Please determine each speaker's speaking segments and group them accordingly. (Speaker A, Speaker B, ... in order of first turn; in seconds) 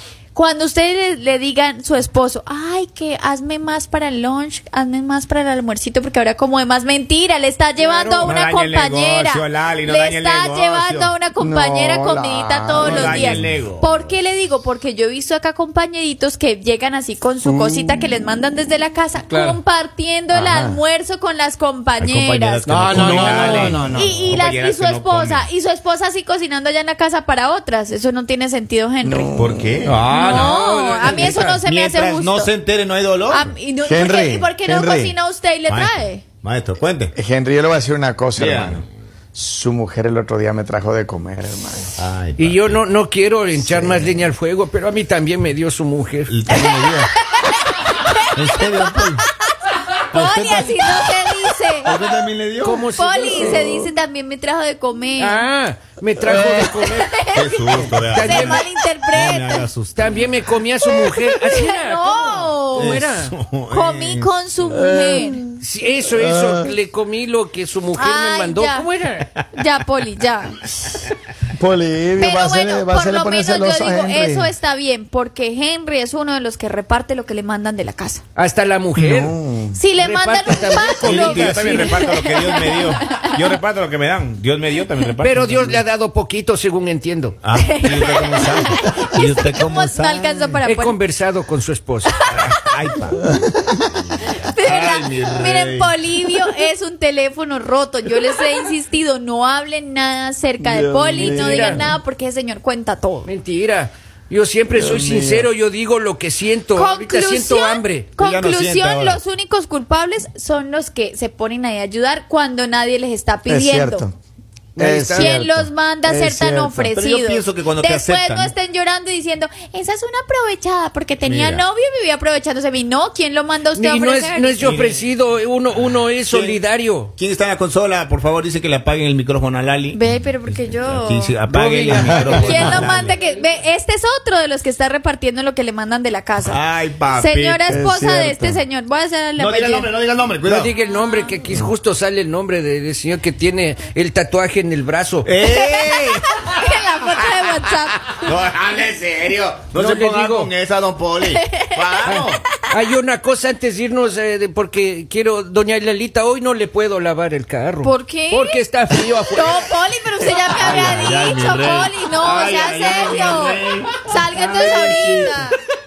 Speaker A: 0.3-29.4, 30.1-32.5, 33.3-36.2, 46.5-51.9, 52.9-55.4, 56.8-59.7, 60.9-63.0, 63.7-65.5, 67.9-68.9, 69.5-70.6, 72.2-78.2, 79.7-83.3, 87.5-91.0, 92.1-92.5, 94.2-103.3, 106.7-114.1, 115.1-124.8, 129.9-131.3, 132.3-136.6, 137.1-139.9, 145.4-148.2, 151.3-152.1, 157.8-158.6, 159.3-165.5
Speaker B: 7.8-11.1, 12.8-14.1, 22.0-25.5, 29.4-33.5, 35.7-37.1, 38.4-38.8, 42.0-42.8, 46.3-47.1, 48.3-49.3, 50.1-51.3, 51.8-52.8, 57.3-60.2, 62.8-64.3, 81.0-85.8, 87.4-90.5, 92.3-93.3, 94.6-95.9, 108.2-109.2, 116.8-118.5, 121.2-121.6, 124.6-125.0, 126.3-126.6, 127.2-133.2, 136.4-137.6, 139.4-140.7, 145.2-146.5, 148.2-152.4, 160.3-165.4
Speaker C: 11.4-13.5, 17.5-17.9, 20.3-20.8, 23.4-24.2, 29.0-30.0, 33.8-35.1, 37.1-41.9, 43.6-44.2, 56.2-56.7, 64.7-66.7, 71.5-74.5, 79.0-79.8, 93.5-93.8, 100.6-101.9, 104.7-105.5, 113.5-114.1, 114.8-116.9, 132.0-132.3, 137.7-138.6
Speaker D: 19.3-19.6, 22.7-24.1, 29.8-31.6, 42.4-46.4, 52.6-53.8, 55.2-57.3, 58.0-58.7, 59.9-63.3, 65.6-69.3, 78.4-79.3, 80.0-82.0, 85.2-87.4, 90.6-92.2, 101.2-101.9, 103.2-108.1, 114.8-115.4, 123.7-127.1, 131.5-133.4, 140.4-145.3, 149.7-150.5, 152.0-159.7